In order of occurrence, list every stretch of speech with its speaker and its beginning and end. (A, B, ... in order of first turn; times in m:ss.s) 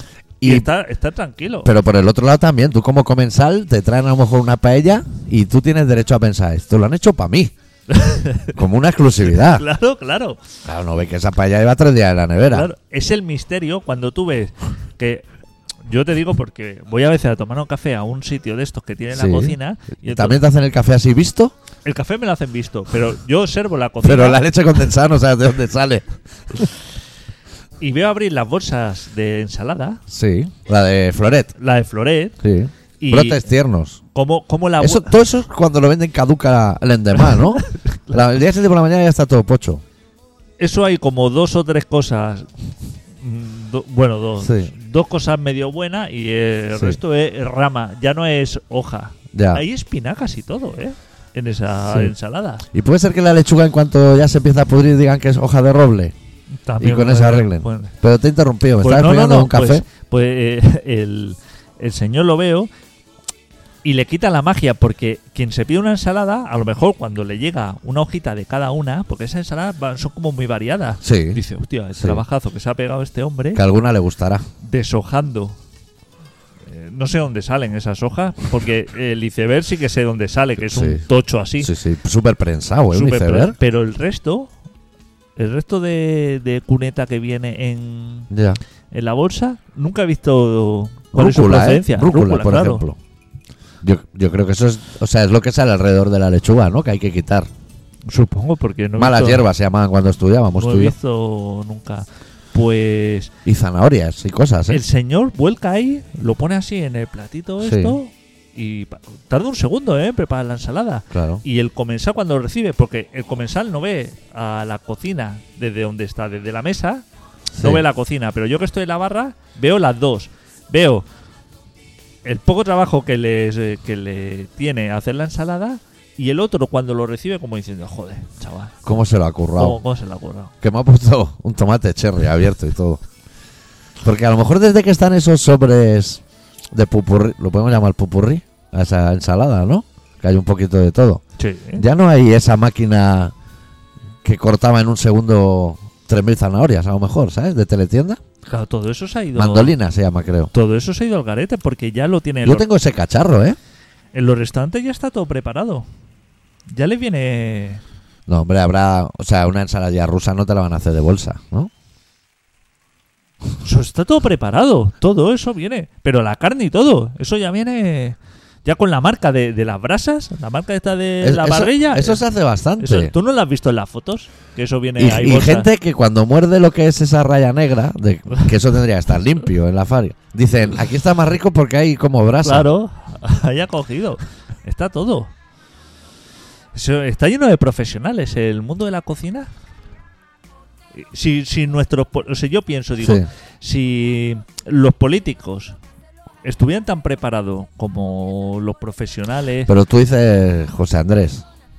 0:00.4-0:00.7 A
0:00.4-0:01.7 B
0:01.6-0:07.5 A
0:07.9-0:08.6 B
0:08.5-0:09.6 A
0:09.2-0:10.4 B
0:10.6-0:12.7 A
0:12.5-0:15.3 B
0:15.9-0:20.4 B
0:19.1-0:21.5 A
0:21.8-0:24.5 B
0:24.0-0:26.6 A
0:27.8-0:30.0 B
0:30.1-0:31.5 A
0:31.6-0:32.4 B
0:32.4-0:34.0 A
0:33.0-0:33.5 B
0:34.1-0:35.1 B
0:34.8-0:39.8 A
0:37.1-0:38.4 B
0:40.6-0:42.5 B
0:43.2-0:52.7 B
0:44.4-0:44.7 A
0:46.7-0:47.0 A
0:49.3-0:49.6 A
0:51.9-0:52.1 A
0:52.7-0:56.1 A
0:56.6-0:57.9 B
0:56.8-0:59.8 A
0:58.8-1:02.7 B
1:03.8-1:13.6 B
1:11.0-1:11.4 A
1:12.0-1:12.2 A
1:13.5-1:14.4 A
1:14.6-1:15.6 B
1:16.7-1:21.7 B
1:20.7-1:21.0 A
1:21.6-1:23.6 A
1:22.9-1:24.5 B
1:25.4-1:28.3 B
1:28.3-1:28.6 A
1:28.9-1:32.8 B
1:31.1-1:33.0 A
1:33.8-1:37.5 A
1:38.1-1:39.4 B
1:39.0-1:40.9 A
1:40.5-1:43.3 B
1:43.4-1:44.8 A
1:44.7-1:57.0 B
1:47.6-1:48.0 A
1:51.1-1:51.4 A
1:57.5-1:57.8 A
1:57.6-2:01.0 B
2:02.2-2:08.7 B
2:08.8-2:09.8 A
2:09.5-2:10.5 B
2:10.6-2:13.0 A
2:14.0-2:16.2 A
2:16.7-2:21.2 A
2:21.4-2:21.8 B
2:21.8-2:23.3 A
2:24.2-2:28.2 A
2:28.4-2:29.8 B
2:29.3-2:30.5 A
2:30.5-2:32.6 B
2:32.4-2:33.6 A
2:34.1-2:35.9 B
2:36.7-2:37.8 B
2:38.3-2:41.7 A
2:43.6-2:52.2 B
2:51.2-2:53.1 A
2:52.8-2:55.7 B
2:55.0-3:02.7 A
3:02.4-3:05.3 B
3:06.7-3:09.5 B
3:10.9-3:15.8 B
3:13.0-3:13.3 A
3:16.4-3:19.7 B
3:19.6-3:21.4 A